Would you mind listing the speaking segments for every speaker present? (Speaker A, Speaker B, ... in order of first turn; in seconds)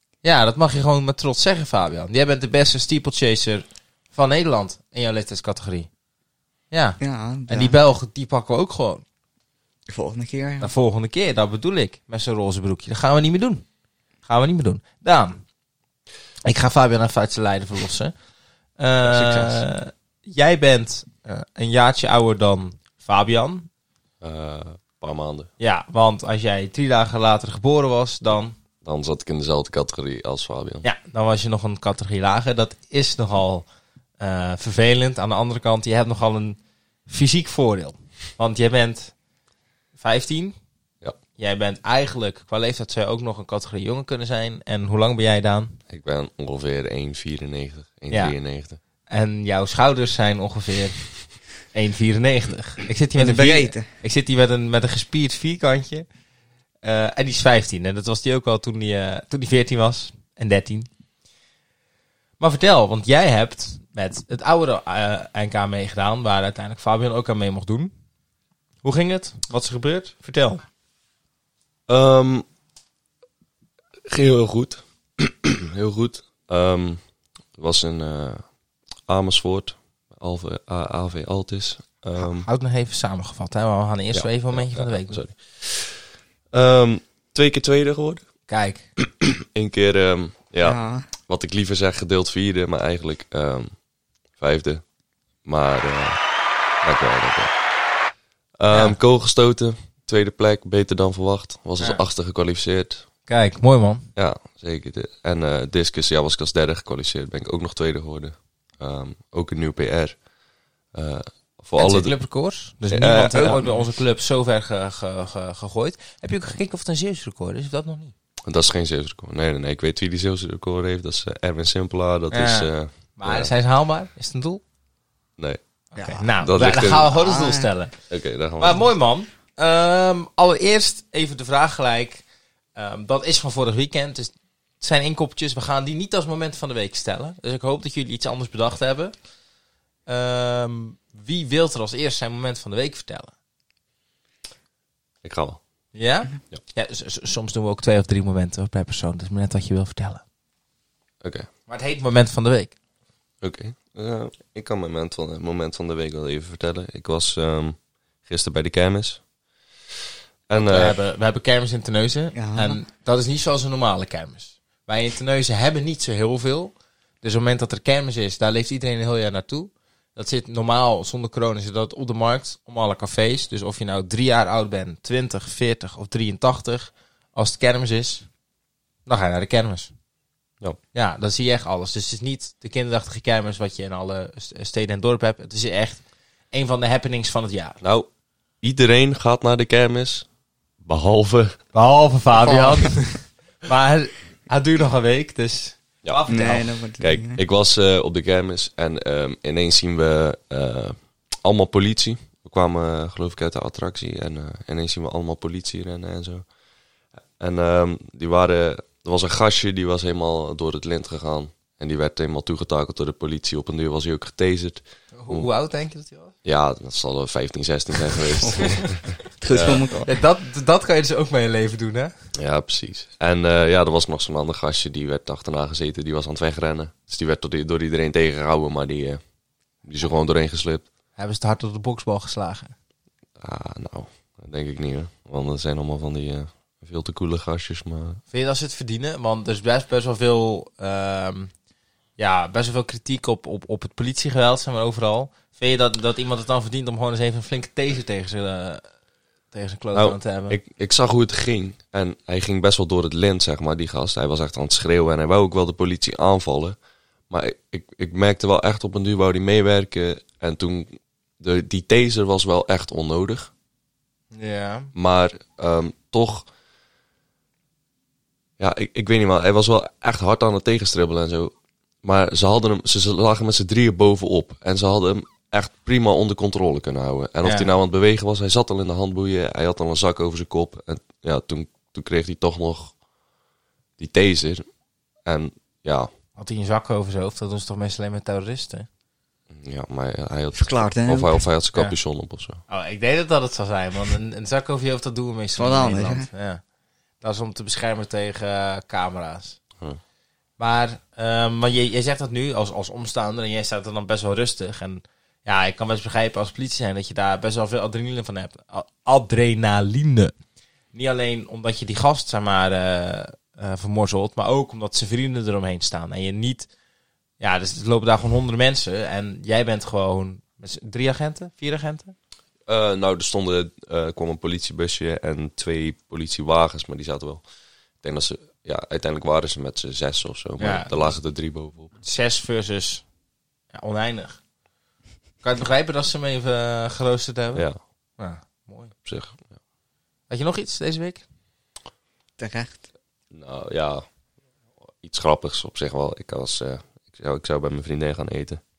Speaker A: 0.2-5.9, 6.7-9.0, 10.6-13.7, 14.3-15.4, 16.4-18.1, 18.8-23.7, 25.6-28.6, 30.8-33.6, 34.2-39.1, 40.0-40.5, 41.4-45.8, 48.1-48.4, 49.1-51.0, 51.7-56.1, 56.8-60.9, 62.4-67.9, 68.8-70.6, 82.2-85.2, 88.5-88.9, 98.7-99.0, 103.3-104.1, 111.8-118.1, 122.3-124.6, 126.0-127.9, 128.6-132.2, 132.8-139.1, 140.1-143.3, 145.9-150.2, 151.7-152.8, 160.6-178.3, 179.1-179.9, 180.9-187.8, 191.7-196.7, 215.2-216.3, 219.7-222.1, 231.2-232.7, 238.3-241.5, 242.2-248.8, 249.5-250.6, 264.3-264.9, 277.4-277.7, 286.4-288.9, 292.7-296.6, 297.2-299.6, 300.6-310.4, 310.9-316.7, 317.4-322.1, 330.6-331.1, 332.0-333.1, 333.7-334.4, 335.4-337.7, 338.2-338.9, 340.3-341.2
Speaker B: 7.0-7.8, 9.9-10.7, 19.0-19.6, 53.2-53.9, 90.6-91.1, 113.3-113.8, 126.0-126.3, 127.1-127.7, 162.3-162.8, 192.4-192.9, 196.3-197.4, 218.4-218.8, 219.4-220.1, 290.6-291.4, 295.6-296.3, 342.4-342.9
Speaker C: 24.2-25.5, 28.8-30.9, 45.9-48.8, 71.9-72.5, 74.1-77.0, 77.6-78.4, 79.1-82.5, 84.1-88.2, 89.0-93.7, 94.4-94.8, 95.5-96.2, 96.8-97.5, 98.6-103.0, 104.2-110.2, 110.9-112.1, 112.9-113.6, 118.5-123.5, 126.4-127.1, 128.1-128.8, 145.2-145.6, 153.4-159.2, 160.5-161.0, 187.8-188.1, 188.6-190.3, 190.8-191.6, 197.0-206.5, 207.4-215.5, 216.4-219.8, 222.3-229.2, 229.8-230.8, 233.4-238.2, 249.9-256.8, 257.3-263.5, 264.9-266.5, 268.6-282.9, 284.0-284.6, 285.3-286.1, 289.5-292.6, 322.7-327.4, 328.0-331.9, 339.0-339.5, 343.3-344.1, 345.0-348.6